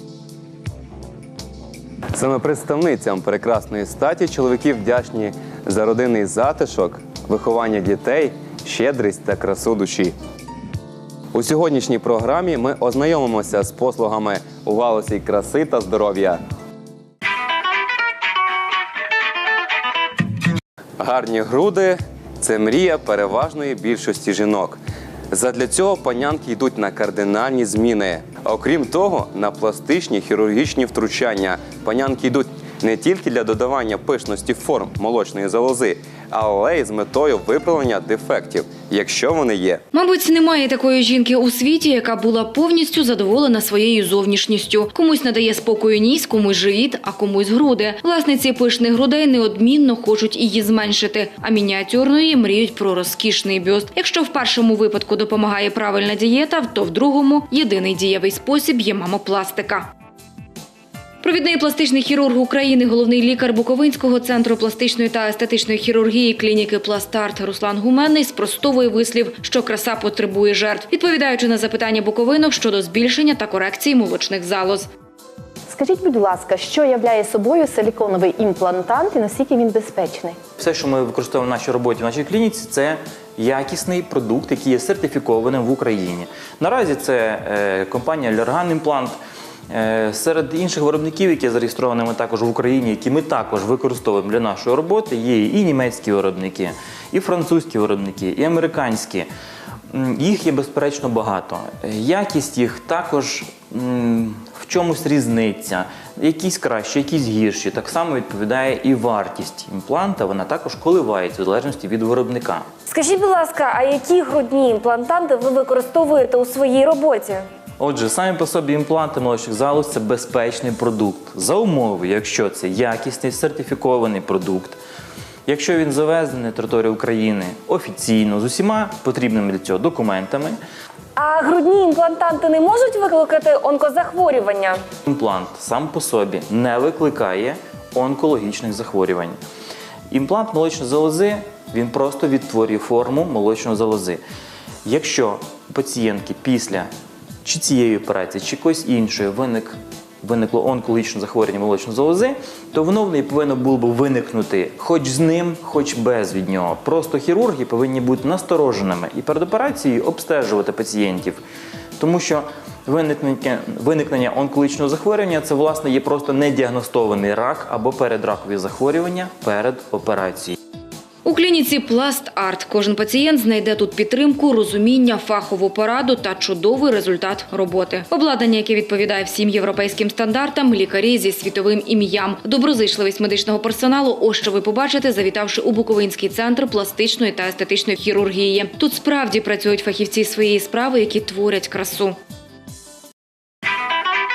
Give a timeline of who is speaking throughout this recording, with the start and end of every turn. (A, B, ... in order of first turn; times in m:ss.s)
0:02.1-0:10.1 A
0:11.3-0:16.4 A
0:21.0-0:24.8 A
0:25.3-0:39.8 A
0:39.9-0:59.9 B
1:01.2-1:14.9 B
1:15.7-1:20.4 C
1:20.6-1:29.2 D
1:29.7-1:39.3 D
1:39.9-1:52.7 D
1:52.9-1:57.4 E
1:57.8-2:04.8 D
2:05.5-2:10.6 D
2:11.2-2:14.8 E
2:15.1-2:19.4 D
2:20.1-2:24.2 D
2:24.8-2:26.9 D
2:27.4-2:41.4 D
2:42.0-2:50.6 D
2:51.2-3:12.2 B